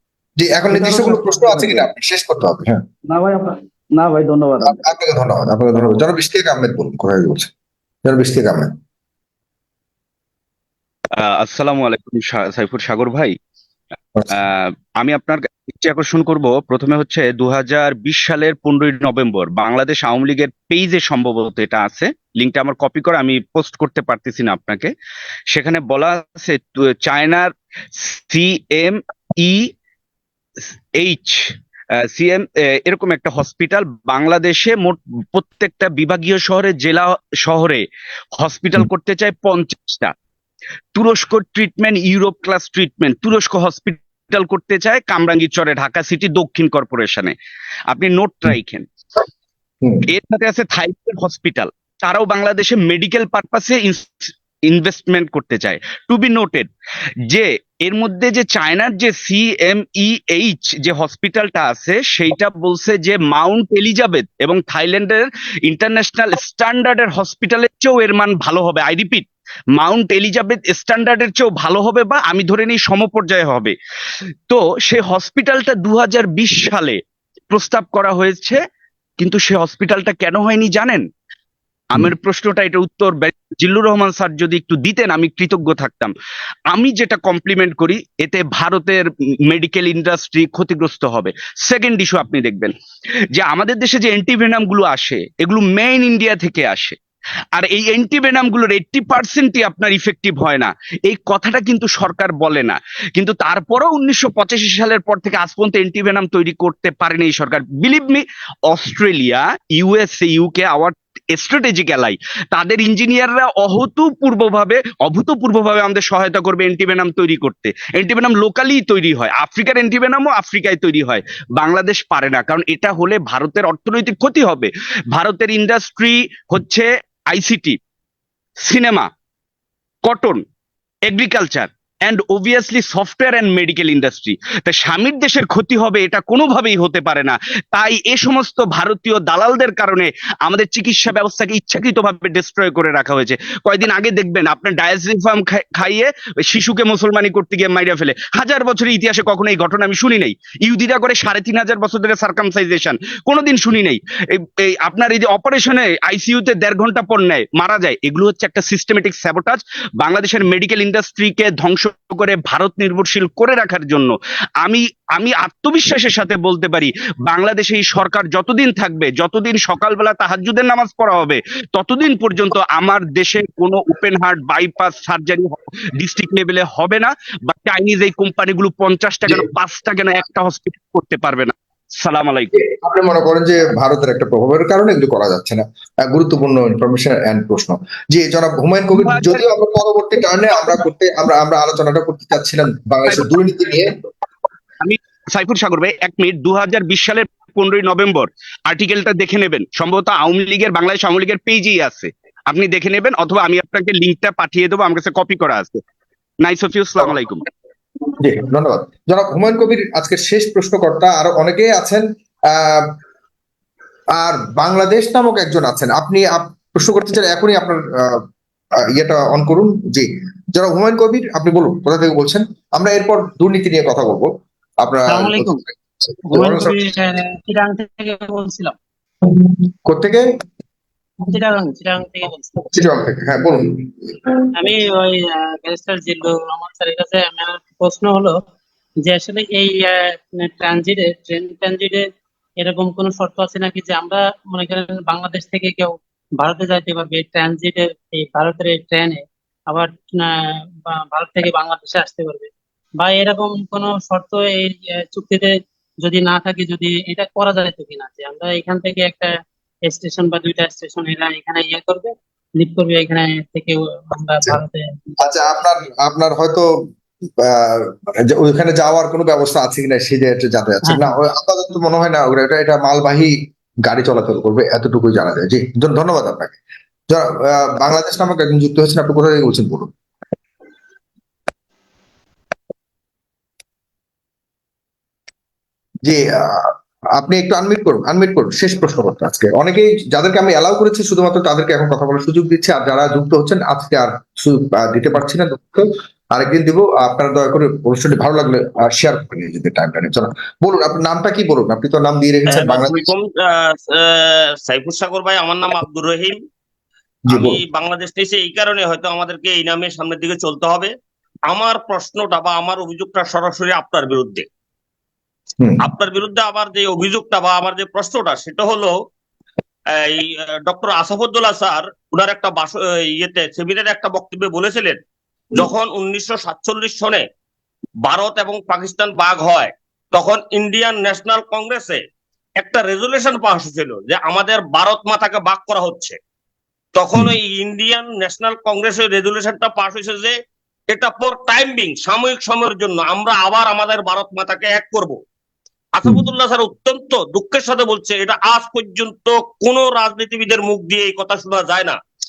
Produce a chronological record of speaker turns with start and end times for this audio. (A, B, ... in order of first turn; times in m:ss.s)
0:00.4-0:02.8 A
0:00.7-0:01.9 B
0:03.1-0:04.8 B
0:04.6-0:07.5 A
0:08.0-0:08.7 A
0:11.2-0:13.4 C
0:14.3-0:24.9 C
0:25.5-0:29.6 C
0:31.0-0:31.3 C
0:32.1-0:37.8 C
0:38.4-0:40.1 C
0:40.9-0:47.4 C
0:47.9-0:48.8 C
0:50.1-0:56.7 C
0:57.3-1:13.7 C
1:14.5-1:17.0 C
1:17.5-1:18.6 C
1:19.2-1:21.0 C
1:21.9-1:26.1 C
1:26.7-1:32.7 C
1:33.3-1:37.0 C
1:37.5-2:07.8 C
2:08.6-2:09.1 C
2:10.0-2:10.4 C
2:11.1-3:02.5 C
3:02.5-3:13.9 A
3:09.0-3:09.5 C
3:10.5-3:10.8 C
3:13.1-3:13.4 C
3:14.8-3:25.8 C
3:26.4-3:27.4 C
3:28.2-3:32.9 A
3:34.2-3:38.2 A
3:38.9-3:44.3 A
3:44.8-3:46.9 A
3:45.1-3:45.6 D
3:46.3-3:48.7 D
3:49.2-3:50.2 A
3:51.2-3:52.6 D
3:52.7-3:54.3 A
3:54.6-3:58.4 D
3:59.0-4:02.0 D
4:02.6-4:10.3 D
4:10.8-4:19.3 D
4:19.8-4:24.8 D
4:25.2-4:26.6 A
4:27.4-4:33.3 A
4:30.8-4:31.1 D
4:33.8-4:36.6 A
4:37.1-4:39.9 A
4:46.0-5:03.1 A
5:02.5-5:06.4 E
5:07.3-5:07.6 A
5:07.3-5:10.9 E
5:11.5-5:14.4 E
5:15.6-5:15.9 A
5:15.8-5:19.0 E
5:20.0-5:25.0 E
5:25.5-5:27.2 E
5:28.0-5:32.0 E
5:32.6-5:36.2 E
5:36.9-5:40.3 E
5:40.9-5:45.2 E
5:46.0-5:52.0 E